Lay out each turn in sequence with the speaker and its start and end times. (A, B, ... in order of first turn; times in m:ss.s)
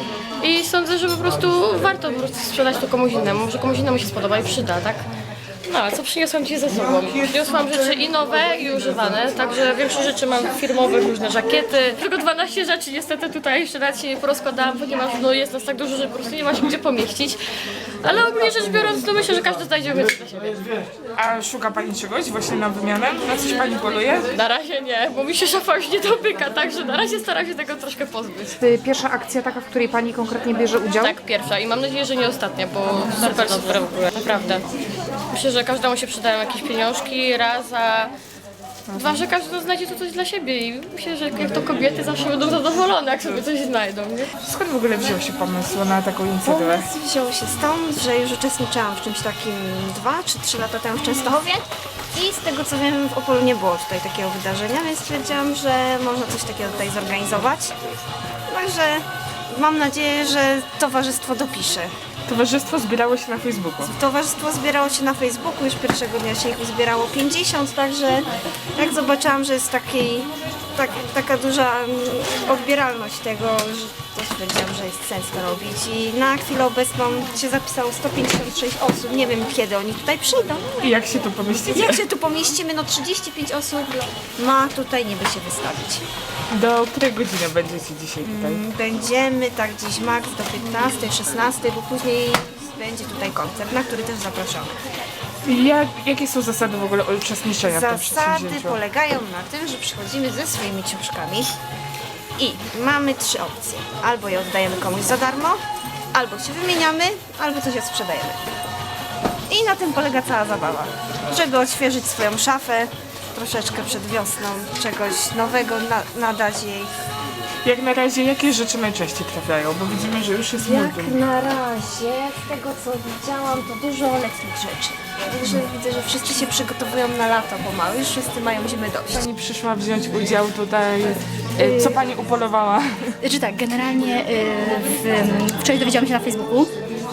0:00.4-0:05.0 A
0:05.6-0:17.4 A
0:18.0-0:20.6 A
0:21.2-0:24.3 B
0:24.3-0:28.6 A
0:28.6-0:31.2 C
0:31.0-0:34.6 A
0:35.3-0:38.1 A
0:38.9-0:44.3 A
0:44.4-0:46.9 B
0:46.4-0:57.7 D
0:58.5-1:01.9 D
1:02.3-1:03.9 B
1:03.8-1:20.8 D
1:20.8-1:22.0 B
1:21.6-1:26.0 D
1:26.5-1:28.6 B
1:28.2-1:34.8 D
1:35.4-1:38.8 B
1:37.6-1:41.5 D
1:42.4-1:45.6 D
1:46.1-1:48.4 D
1:49.5-1:56.9 D
1:57.6-2:01.2 B
2:00.6-2:09.2 D
2:09.1-2:13.2 B
2:11.6-2:12.0 E
2:13.2-2:16.7 E